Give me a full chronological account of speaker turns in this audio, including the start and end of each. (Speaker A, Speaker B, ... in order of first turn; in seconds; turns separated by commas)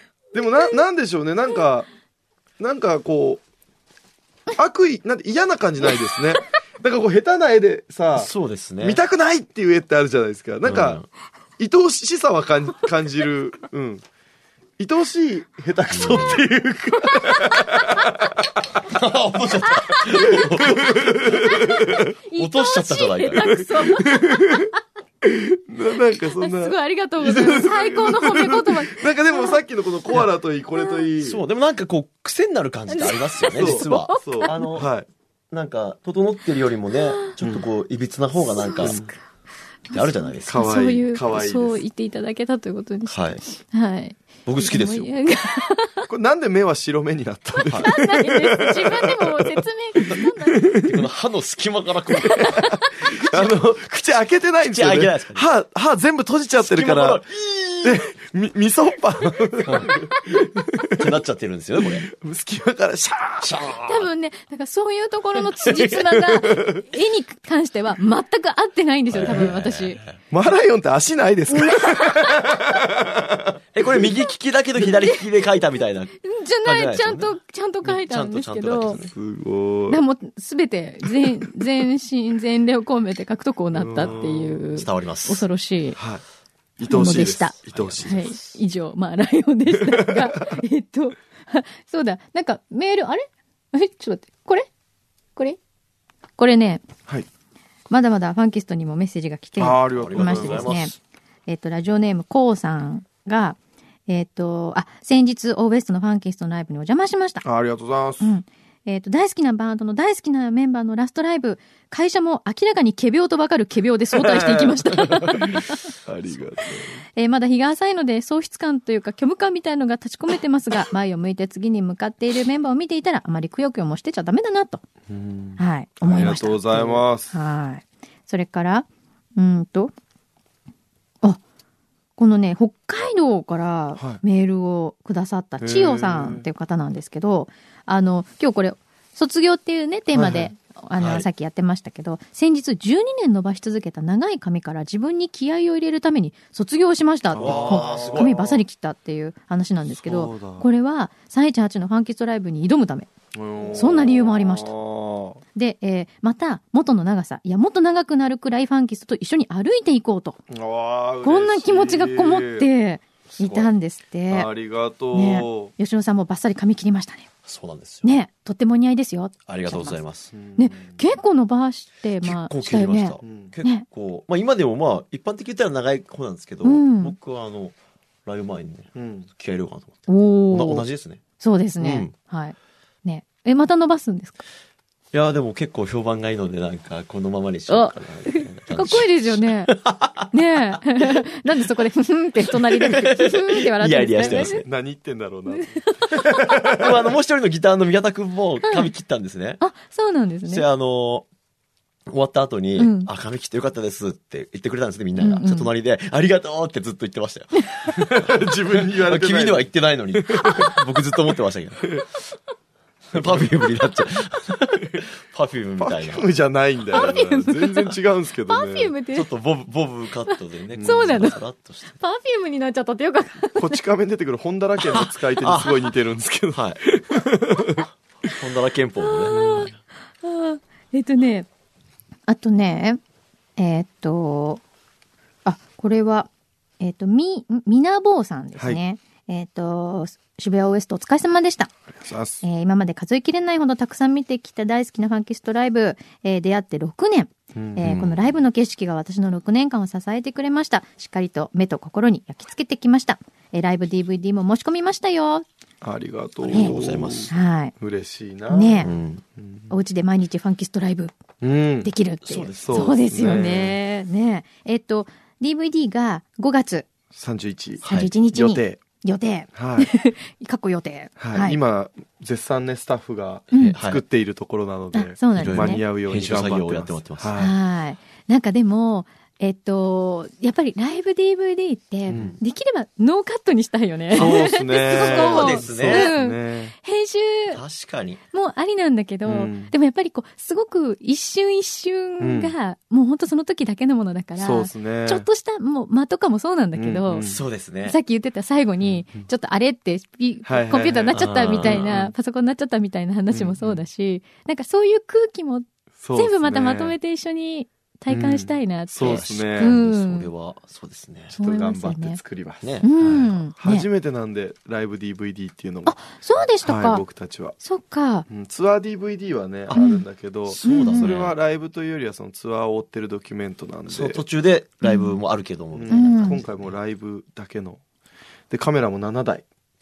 Speaker A: 0.3-1.9, Speaker B: 0.4-0.8, Speaker A: 2.6-3.4, Speaker A: 4.6-11.0, Speaker C: 8.2-9.0, Speaker C: 10.6-11.1, Speaker A: 11.6-14.0, Speaker A: 14.8-18.7, Speaker C: 15.9-16.4, Speaker C: 18.8-21.6, Speaker A: 20.1-22.1, Speaker B: 21.4-24.8, Speaker C: 22.4-23.6, Speaker A: 23.5-24.7, Speaker A: 25.2-31.4, Speaker B: 26.4-29.6, Speaker B: 30.8-31.0, Speaker C: 31.2-34.9, Speaker B: 32.9-34.7, Speaker A: 33.5-35.1, Speaker C: 35.5-39.0, Speaker B: 36.9-37.3, Speaker A: 37.4-37.7, Speaker B: 38.6-39.2, Speaker A: 38.8-39.1, Speaker B: 39.9-46.1, Speaker C: 39.9-40.6, Speaker A: 40.5-41.8, Speaker C: 43.1-43.4, Speaker C: 44.5-45.1, Speaker A: 46.1-51.1, Speaker B: 47.6-50.7, Speaker C: 50.8-52.8, Speaker B: 52.2-53.2, Speaker A: 53.2-57.2, Speaker C: 54.6-55.5, Speaker C: 56.6-58.0, Speaker A: 57.8-61.1, Speaker C: 59.6-60.0, Speaker B: 60.2-60.4, Speaker C: 60.9-62.1, Speaker A: 61.8-63.6, Speaker C: 63.4-64.1, Speaker B: 63.8-70.0, Speaker A: 66.1-66.9, Speaker C: 69.1-70.2, Speaker A: 69.2-69.5, Speaker A: 70.3-74.0, Speaker B: 71.5-72.5, Speaker C: 73.8-79.1, Speaker B: 76.2-79.0, Speaker A: 78.9-80.0, Speaker B: 79.9-86.0, Speaker A: 83.7-84.6, Speaker C: 84.7-85.5, Speaker A: 86.0-86.2, Speaker A: 86.8-88.3, Speaker B: 86.8-94.7, Speaker C: 87.1-88.6, Speaker A: 89.7-90.6, Speaker B: 96.4-96.9, Speaker B: 97.9-100.9, Speaker A: 99.6-100.7, Speaker C: 99.9-101.0, Speaker B: 101.5-107.4, Speaker A: 107.4-108.3, Speaker B: 108.2-115.9, Speaker A: 114.1-117.0, Speaker B: 117.2-124.8, Speaker A: 125.1-127.3, Speaker B: 125.6-129.9, Speaker B: 132.2-153.1, Speaker A: 135.6-136.5, Speaker A: 140.1-140.5, Speaker C: 141.0-141.2, Speaker A: 147.3-148.6, Speaker C: 147.4-148.5, Speaker A: 150.0-150.7, Speaker A: 153.3-155.4, Speaker B: 153.7-154.7, Speaker B: 155.6-160.4, Speaker A: 160.5-162.7, Speaker B: 161.2-164.5, Speaker A: 164.3-165.7, Speaker B: 165.1-167.3, Speaker C: 167.4-168.1, Speaker B: 168.0-170.0, Speaker C: 169.5-170.3, Speaker A: 170.3-171.0, Speaker B: 170.6-173.8, Speaker C: 172.2-177.8, Speaker A: 173.2-173.5, Speaker B: 176.6-177.2, Speaker C: 178.3-181.2, Speaker A: 178.9-179.3, Speaker B: 180.1-180.9, Speaker B: 181.4-184.4, Speaker C: 181.8-182.1, Speaker C: 185.1-191.2, Speaker B: 187.7-189.8, Speaker B: 190.3-194.6, Speaker C: 192.5-194.7, Speaker A: 194.2-197.1, Speaker B: 195.5-196.4, Speaker C: 196.5-199.6, Speaker B: 198.7-198.9, Speaker B: 199.6-200.7, Speaker C: 200.5-201.3, Speaker C: 202.1-212.0, Speaker B: 202.8-203.1, Speaker B: 205.2-205.7, Speaker A: 207.9-210.7, Speaker B: 210.4-210.8, Speaker C: 213.1-216.3, Speaker A: 213.2-213.5, Speaker A: 215.8-218.9, Speaker B: 216.9-217.9, Speaker B: 218.5-219.3, Speaker C: 219.1-222.0, Speaker B: 220.3-221.4, Speaker A: 220.7-221.3, Speaker B: 221.9-223.8, Speaker A: 223.6-228.3, Speaker C: 224.8-225.9, Speaker C: 226.5-226.8, Speaker C: 228.2-229.8, Speaker B: 229.0-231.5, Speaker B: 232.3-233.0, Speaker B: 233.6-234.6, Speaker B: 235.4-241.7, Speaker A: 241.9-242.4, Speaker B: 242.4-255.4, Speaker A: 247.6-247.8, Speaker C: 247.8-248.3, Speaker A: 255.8-259.7, Speaker C: 256.4-257.3, Speaker B: 257.3-257.7, Speaker B: 258.5-258.9, Speaker C: 258.8-259.2, Speaker B: 259.7-261.2, Speaker A: 261.4-261.9, Speaker B: 261.8-266.9, Speaker C: 262.3-263.0, Speaker A: 262.6-263.8, Speaker A: 267.1-268.8, Speaker B: 267.8-271.6, Speaker C: 267.9-268.1, Speaker A: 269.5-269.9, Speaker A: 271.2-277.6, Speaker B: 273.5-273.8, Speaker C: 273.5-274.0, Speaker B: 274.9-275.8, Speaker C: 275.4-277.4, Speaker B: 277.4-287.6, Speaker A: 282.1-282.4, Speaker C: 282.1-282.4, Speaker A: 284.1-286.7, Speaker C: 284.9-286.1, Speaker C: 287.5-288.2, Speaker B: 288.3-297.3, Speaker A: 289.2-289.7, Speaker A: 292.2-292.5, Speaker A: 294.4-295.3, Speaker A: 296.8-297.4, Speaker C: 297.2-298.0, Speaker B: 297.9-310.3, Speaker A: 298.8-299.2, Speaker A: 300.4-302.1, Speaker C: 301.1-302.0, Speaker A: 303.3-303.8, Speaker A: 306.0-307.0, Speaker A: 308.1-309.8, Speaker C: 309.0-311.4, Speaker B: 311.3-312.2, Speaker A: 311.4-316.0, Speaker C: 312.6-313.3, Speaker B: 312.8-313.9, Speaker B: 315.9-317.0, Speaker A: 316.6-317.6, Speaker B: 317.6-318.3, Speaker A: 318.3-324.2, Speaker B: 319.7-320.1, Speaker C: 320.5-321.4, Speaker B: 320.6-321.1, Speaker C: 323.9-326.7, Speaker B: 324.8-325.2, Speaker A: 325.7-327.8, Speaker B: 325.9-326.4, Speaker A: 328.5-329.4